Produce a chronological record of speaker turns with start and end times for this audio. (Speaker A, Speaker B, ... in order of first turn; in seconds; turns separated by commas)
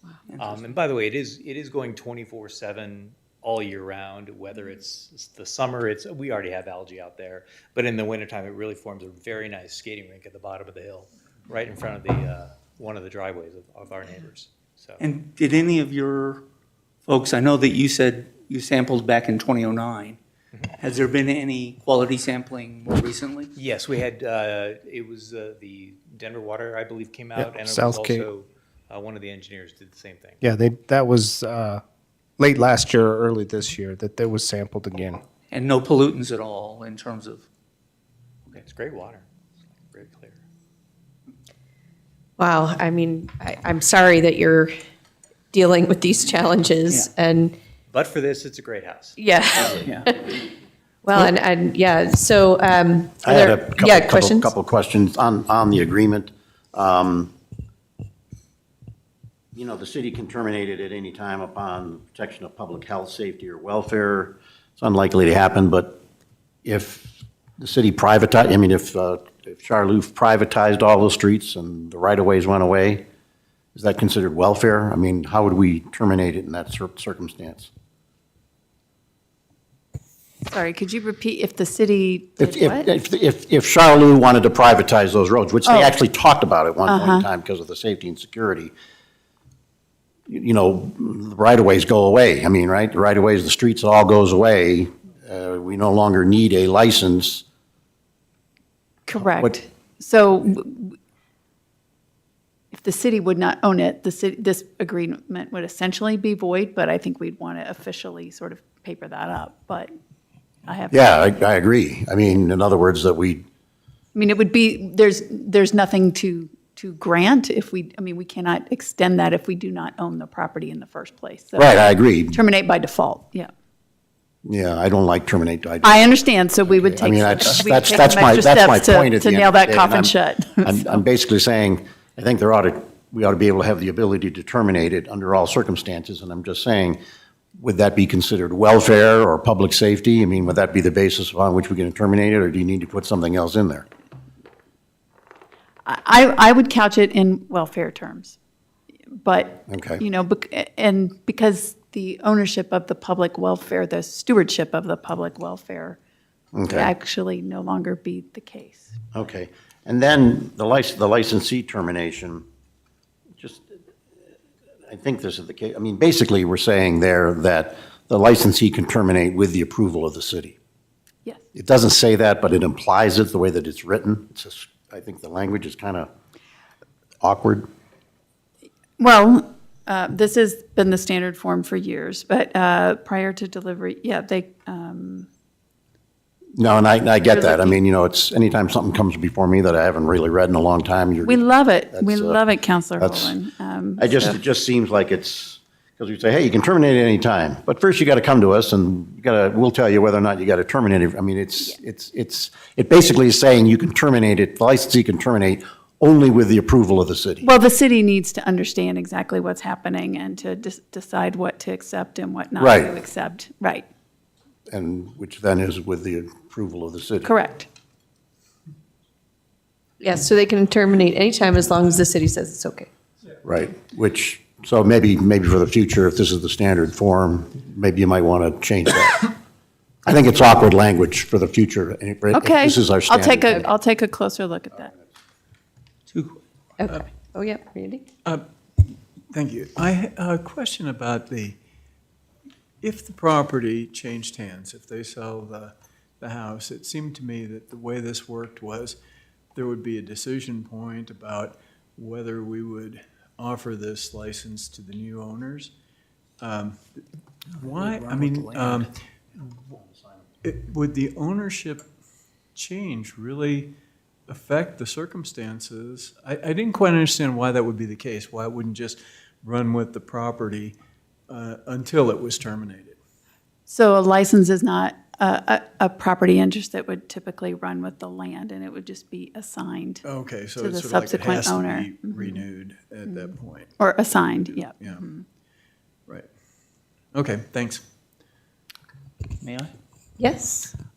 Speaker A: 0.4-15.0, Speaker B: 15.0-16.4, Speaker B: 17.1-20.2, Speaker B: 20.8-23.5, Speaker A: 23.6-30.4, Speaker C: 27.4-28.3, Speaker C: 30.4-31.8, Speaker C: 32.4-35.2, Speaker B: 35.5-37.5, Speaker A: 38.6-39.3, Speaker A: 39.8-40.4, Speaker D: 42.4-44.7, Speaker D: 45.5-47.6, Speaker A: 47.9-49.2, Speaker D: 49.2-50.3, Speaker D: 51.0-54.5, Speaker E: 53.2-57.3, Speaker E: 59.5-66.0, Speaker E: 66.6-73.0, Speaker E: 73.8-77.7, Speaker F: 80.5-82.9, Speaker E: 82.4-88.7, Speaker F: 85.6-86.0, Speaker F: 86.8-87.2, Speaker E: 90.3-97.4, Speaker F: 99.1-100.9, Speaker E: 99.1-99.5, Speaker F: 102.7-109.9, Speaker F: 110.7-111.2, Speaker E: 110.9-113.4, Speaker F: 114.1-123.5, Speaker E: 121.5-122.4, Speaker E: 124.5-137.0, Speaker F: 125.8-131.0, Speaker E: 137.6-143.9, Speaker F: 145.9-148.4, Speaker F: 149.1-156.0, Speaker E: 149.7-150.0, Speaker E: 156.6-156.9, Speaker F: 156.7-159.1, Speaker E: 159.1-162.4, Speaker E: 163.4-163.7, Speaker E: 164.9-170.6, Speaker E: 171.5-176.1, Speaker E: 177.2-177.7, Speaker F: 179.0-185.3, Speaker E: 186.6-192.4, Speaker F: 187.3-187.8, Speaker F: 191.2-194.4, Speaker E: 193.0-193.4, Speaker E: 194.0-207.5, Speaker F: 207.4-213.9, Speaker E: 212.6-212.9, Speaker E: 214.7-217.3, Speaker F: 217.2-217.7, Speaker D: 220.0-222.9, Speaker E: 223.4-229.3, Speaker E: 230.1-233.7, Speaker F: 232.3-234.9, Speaker D: 236.8-238.1, Speaker G: 239.3-241.6, Speaker G: 242.8-249.0, Speaker G: 249.5-255.7, Speaker G: 256.4-257.0, Speaker G: 257.6-258.9, Speaker B: 257.6-258.8, Speaker G: 260.4-261.9, Speaker G: 262.5-263.8, Speaker G: 264.3-270.8, Speaker G: 271.3-273.0, Speaker F: 273.7-280.0, Speaker G: 280.0-285.1, Speaker F: 280.6-282.4, Speaker F: 283.1-285.2, Speaker G: 287.1-287.8, Speaker D: 290.2-290.7